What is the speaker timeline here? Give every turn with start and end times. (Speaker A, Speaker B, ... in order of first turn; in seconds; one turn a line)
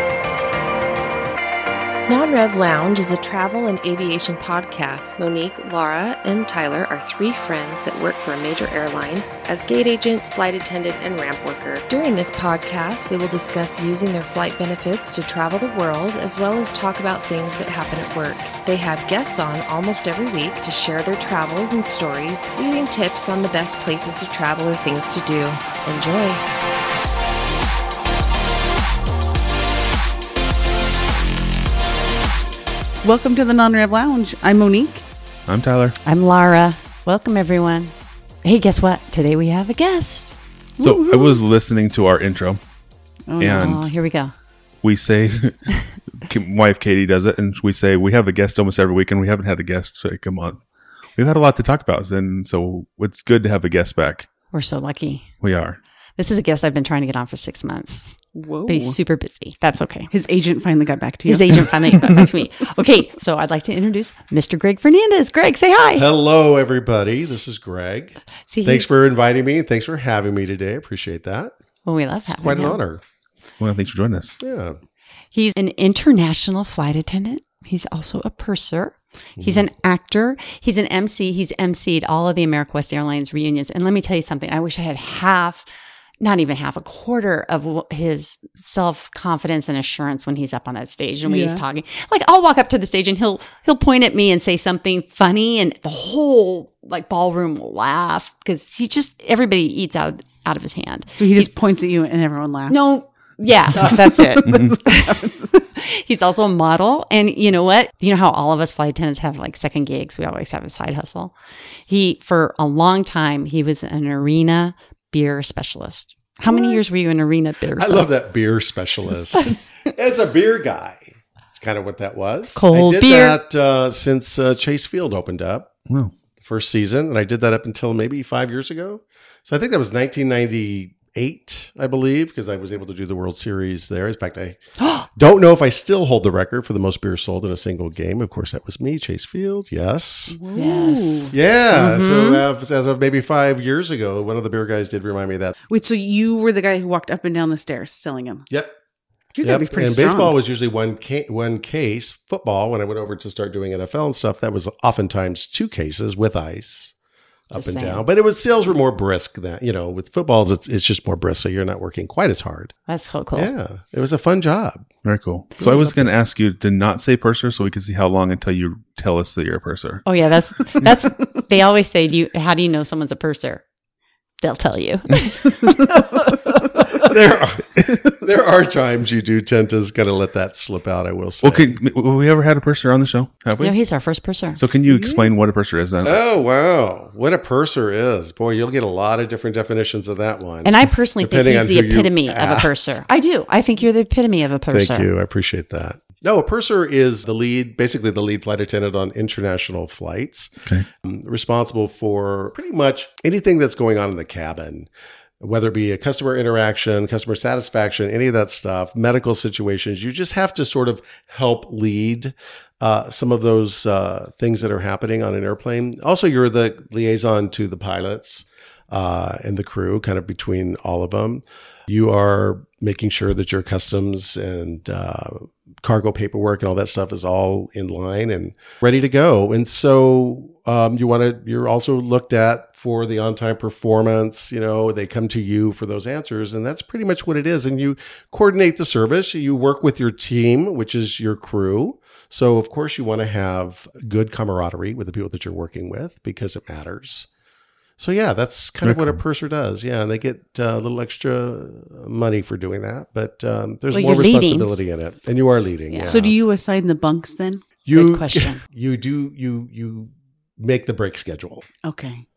Speaker A: 2.1-26.4
Speaker B: 33.0-35.0
Speaker C: 35.5-36.0
Speaker D: 36.0-37.9
Speaker D: 38.4-40.3
Speaker B: 40.8-41.4
Speaker C: 40.8-42.6
Speaker B: 43.3-43.7
Speaker C: 43.4-43.9
Speaker D: 43.5-44.3
Speaker C: 44.8-50.6
Speaker C: 51.2-54.3
Speaker D: 54.5-55.3
Speaker C: 55.4-55.8
Speaker D: 56.2-58.1
Speaker B: 58.3-59.0
Speaker D: 58.7-60.1
Speaker B: 60.1-61.8
Speaker D: 61.3-66.1
Speaker E: 65.9-71.5
Speaker D: 68.5-68.8
Speaker D: 71.8-72.8
Speaker E: 72.2-73.0
Speaker C: 73.6-74.3
Speaker E: 74.4-74.8
Speaker D: 75.3-85.7
Speaker E: 79.4-79.7
Speaker D: 86.2-101.5
Speaker B: 91.2-91.6
Speaker B: 101.2-102.8
Speaker D: 102.7-111.3
Speaker B: 103.8-105.5
Speaker C: 104.5-104.8
Speaker D: 111.9-118.1
Speaker E: 117.8-125.7
Speaker D: 122.5-123.4
Speaker C: 125.9-126.1
Speaker E: 126.4-134.6
Speaker D: 134.8-135.1
Speaker E: 135.1-140.4
Speaker B: 140.3-141.3
Speaker D: 140.6-142.4
Speaker E: 141.3-145.5
Speaker B: 145.7-148.4
Speaker E: 148.5-148.8
Speaker B: 149.3-150.3
Speaker E: 149.4-156.9
Speaker E: 157.5-162.7
Speaker D: 157.5-158.1
Speaker D: 162.9-163.5
Speaker E: 163.3-164.9
Speaker C: 165.0-170.0
Speaker E: 165.6-166.1
Speaker D: 170.0-173.6
Speaker D: 174.4-177.0
Speaker E: 176.9-181.7
Speaker C: 181.4-183.8
Speaker D: 183.6-184.6
Speaker C: 184.6-186.2
Speaker E: 186.0-193.0
Speaker D: 190.6-195.1
Speaker E: 194.7-247.3
Speaker E: 248.0-256.4
Speaker C: 248.8-249.2
Speaker D: 253.9-254.8
Speaker D: 255.9-256.1
Speaker B: 256.1-257.6
Speaker E: 257.8-261.6
Speaker D: 257.9-258.6
Speaker B: 261.8-262.2